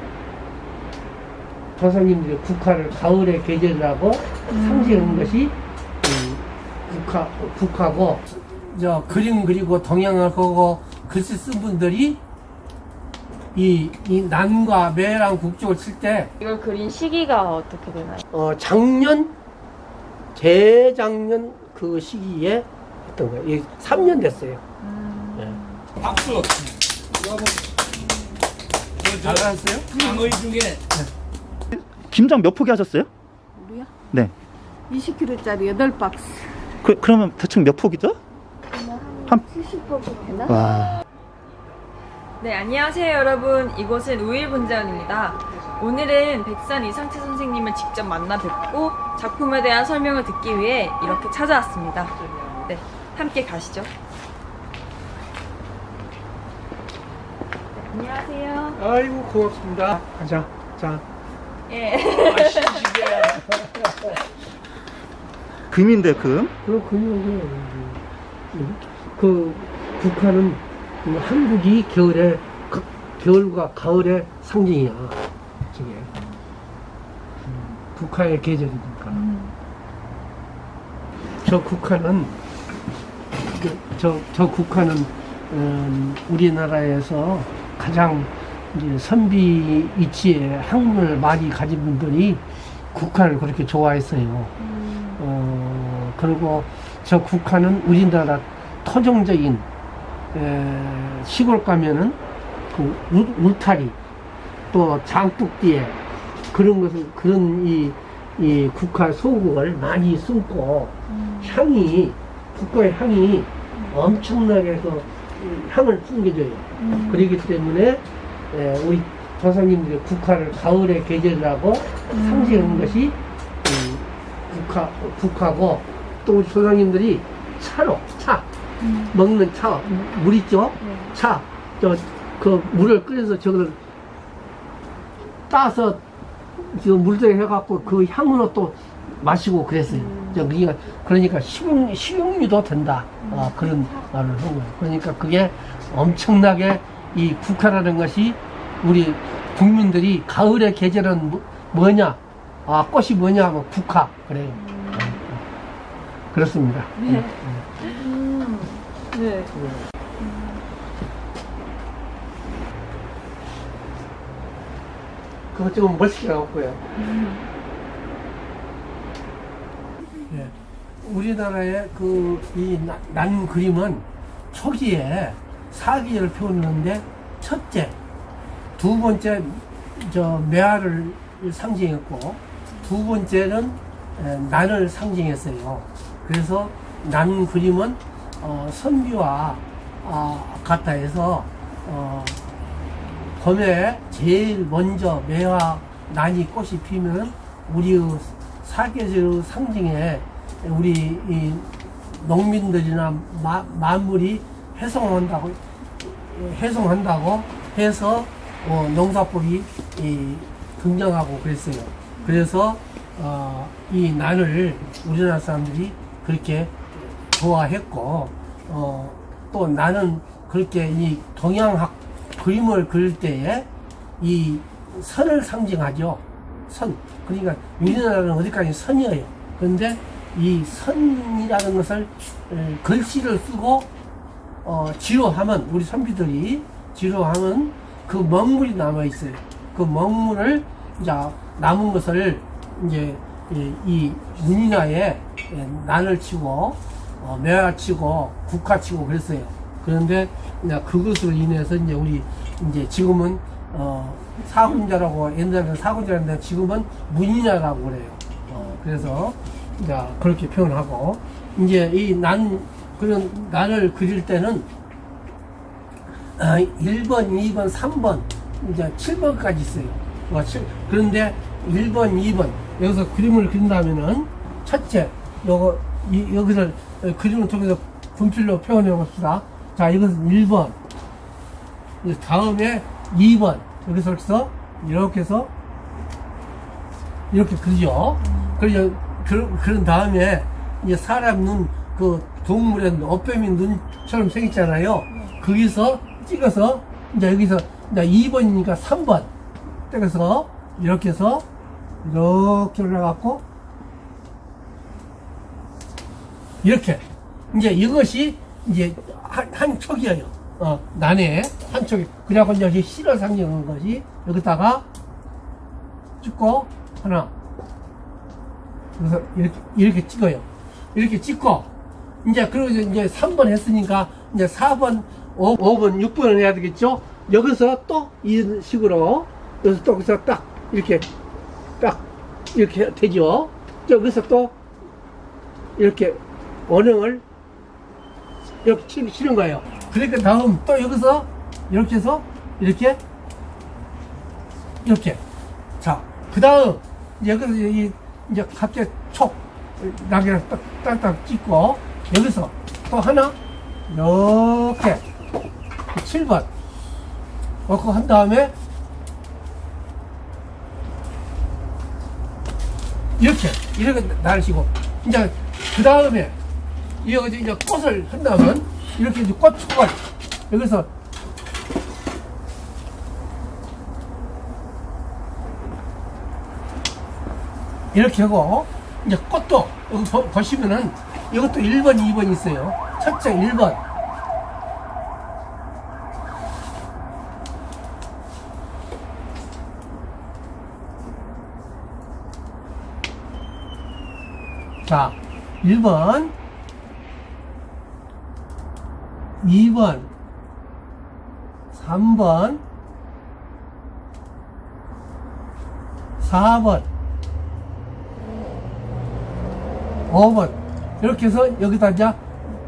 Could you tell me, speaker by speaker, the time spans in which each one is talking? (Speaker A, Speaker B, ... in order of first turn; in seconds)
Speaker A: 1.8-12.2, 13.5-16.3, 18.3-19.3, 20.3-24.6, 29.2-30.1, 58.8-61.0, 66.6-68.0, 68.5-75.2, 75.7-76.1, 77.5-79.2, 81.4-82.3, 83.5-94.5, 95.1-99.7, 100.3-102.2, 102.7-104.0, 104.7-106.0, 106.5-128.4, 129.1-133.8, 135.5-136.0, 136.6-155.4, 156.3-157.7, 159.5-159.8, 165.5-166.8, 170.3-177.9, 178.8-192.4, 193.4-223.7, 224.2-233.9, 234.6-264.7, 266.4-280.8, 282.0-285.5, 287.3-299.3, 299.9-301.4, 302.0-303.4, 306.6-314.8, 316.2-317.3, 319.0-321.7, 322.2-331.1, 331.8-334.5, 335.8-337.2, 338.6-343.0, 344.8-345.2, 345.8-353.4, 353.9-355.0, 355.9-356.5, 357.7-358.5, 363.2-366.3, 367.0-370.0, 370.5-370.9, 377.9-383.8, 394.8-396.3, 399.4-400.1, 401.7-402.6, 406.2-406.9, 410.1-412.2
Speaker B: 4.5-5.4, 16.4-18.2, 24.8-26.4, 42.4-53.9, 57.8-58.8, 61.7-63.4, 79.1-79.5, 94.6-95.2, 111.1-111.6, 116.8-117.3, 122.1-123.0, 128.8-129.1, 130.8-131.1, 139.9-140.5, 143.2-143.7, 154.5-155.2, 157.0-159.5, 160.2-160.6, 167.0-167.5, 288.2-288.6
Speaker C: 31.7-33.1, 36.8-38.2, 40.4-41.0, 65.7-66.5
Speaker D: 33.6-33.9, 34.9-36.5, 38.7-40.5